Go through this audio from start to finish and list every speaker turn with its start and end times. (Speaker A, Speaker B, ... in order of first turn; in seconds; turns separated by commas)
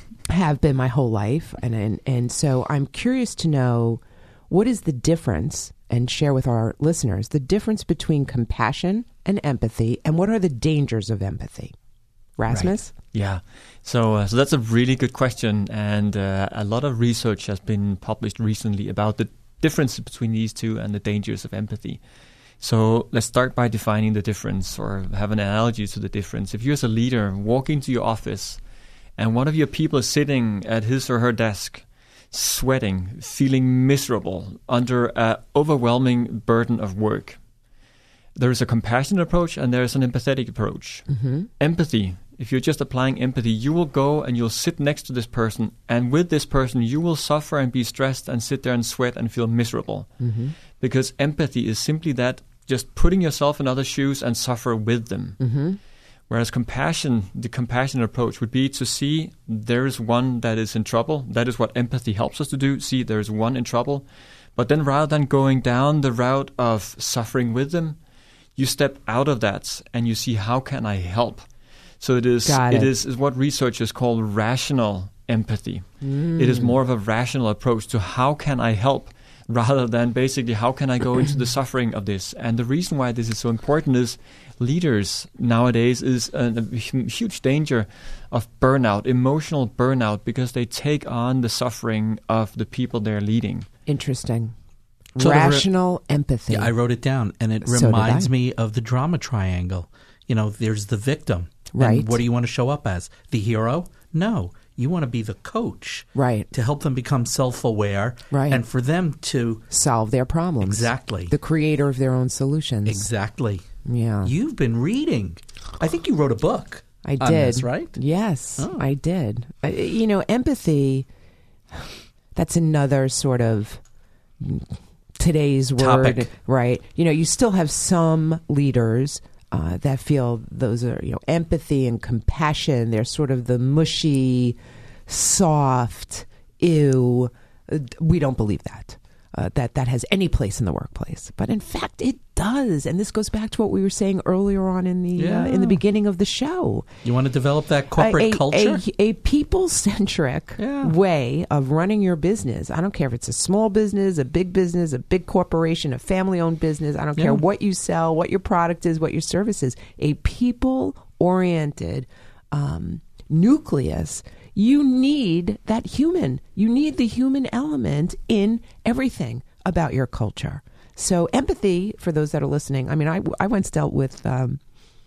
Speaker A: 0.2-11.7, Speaker A: 12.4-12.9, Speaker B: 12.5-22.0, Speaker B: 22.6-28.6, Speaker B: 29.2-37.4, Speaker B: 38.4-41.1, Speaker A: 41.1-41.5, Speaker B: 41.6-50.2, Speaker A: 50.2-50.5, Speaker B: 50.8-55.4, Speaker A: 55.4-55.8, Speaker B: 56.3-68.0, Speaker B: 68.5-71.5, Speaker B: 72.0-93.7, Speaker A: 72.4-72.9, Speaker A: 76.0-76.7, Speaker A: 93.9-94.5, Speaker A: 95.1-96.7, Speaker C: 95.2-95.7, Speaker C: 96.5-109.6, Speaker A: 97.6-98.3, Speaker A: 101.7-102.2, Speaker A: 106.1-106.5, Speaker A: 108.3-108.6, Speaker A: 109.7-113.1, Speaker C: 110.6-111.3, Speaker C: 112.8-113.6, Speaker A: 113.8-114.3, Speaker C: 114.2-117.9, Speaker A: 117.0-121.1, Speaker A: 121.7-123.8, Speaker A: 124.4-146.9, Speaker C: 125.8-126.3, Speaker C: 145.2-145.8, Speaker C: 147.0-148.8, Speaker A: 147.9-174.6, Speaker C: 150.6-150.9, Speaker C: 157.2-157.4